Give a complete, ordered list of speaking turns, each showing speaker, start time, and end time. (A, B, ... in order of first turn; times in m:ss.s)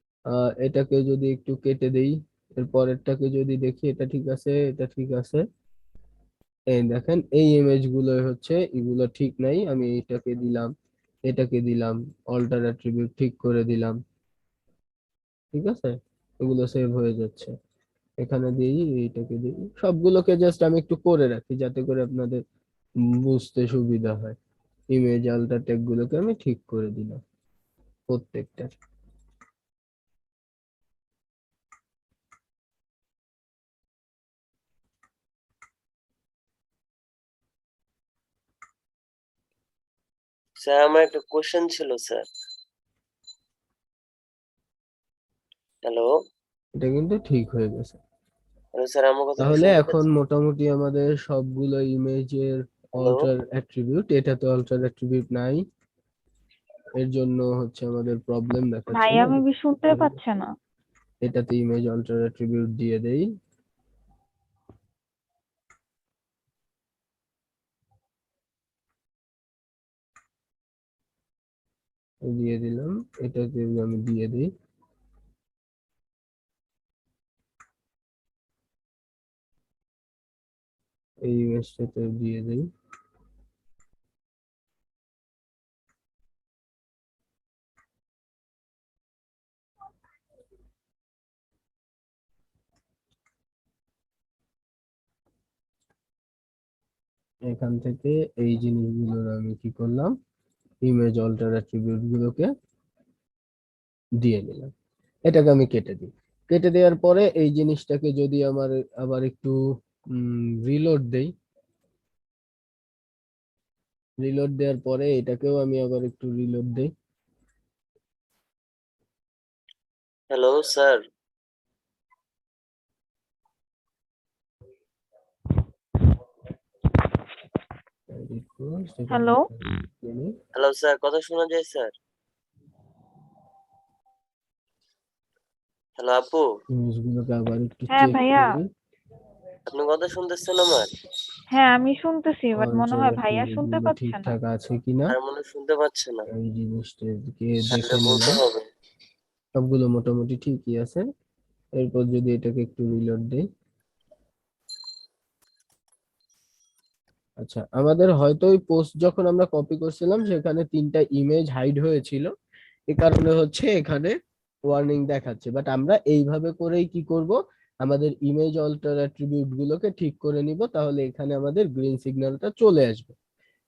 0:00.3-0:05.4 A
0:06.7-0:10.7 A
0:11.3-0:14.0 A
0:15.5-0:17.5 A
0:18.2-0:22.4 A
0:23.2-0:24.4 A
0:24.9-0:27.2 A
0:28.1-0:28.7 A
0:40.6-0:42.2 B
0:45.8-0:46.1 B
0:46.8-0:48.0 A
0:48.8-0:50.0 B
0:49.4-0:55.6 A
0:53.0-0:53.3 B
0:57.0-1:00.2 A
0:58.9-1:00.5 C
1:01.2-1:03.3 A
1:12.2-1:14.5 A
1:21.2-1:22.7 A
1:37.5-1:40.2 A
1:40.8-1:42.5 A
1:44.2-1:44.7 A
1:45.3-1:49.6 A
1:50.1-1:51.3 A
1:54.2-1:56.9 A
2:00.3-2:01.0 B
2:08.1-2:10.3 A
2:09.1-2:09.4 C
2:10.5-2:11.9 B
2:16.0-2:16.5 B
2:16.7-2:18.7 A
2:17.9-2:18.5 C
2:19.7-2:20.9 B
2:21.5-2:24.3 C
2:22.5-2:25.1 A
2:25.1-2:26.2 B
2:26.3-2:28.4 A
2:27.7-2:28.6 B
2:29.5-2:31.0 A
2:31.8-2:33.4 A
2:37.4-2:42.3 A
2:42.9-2:44.2 A
2:44.7-2:53.1 A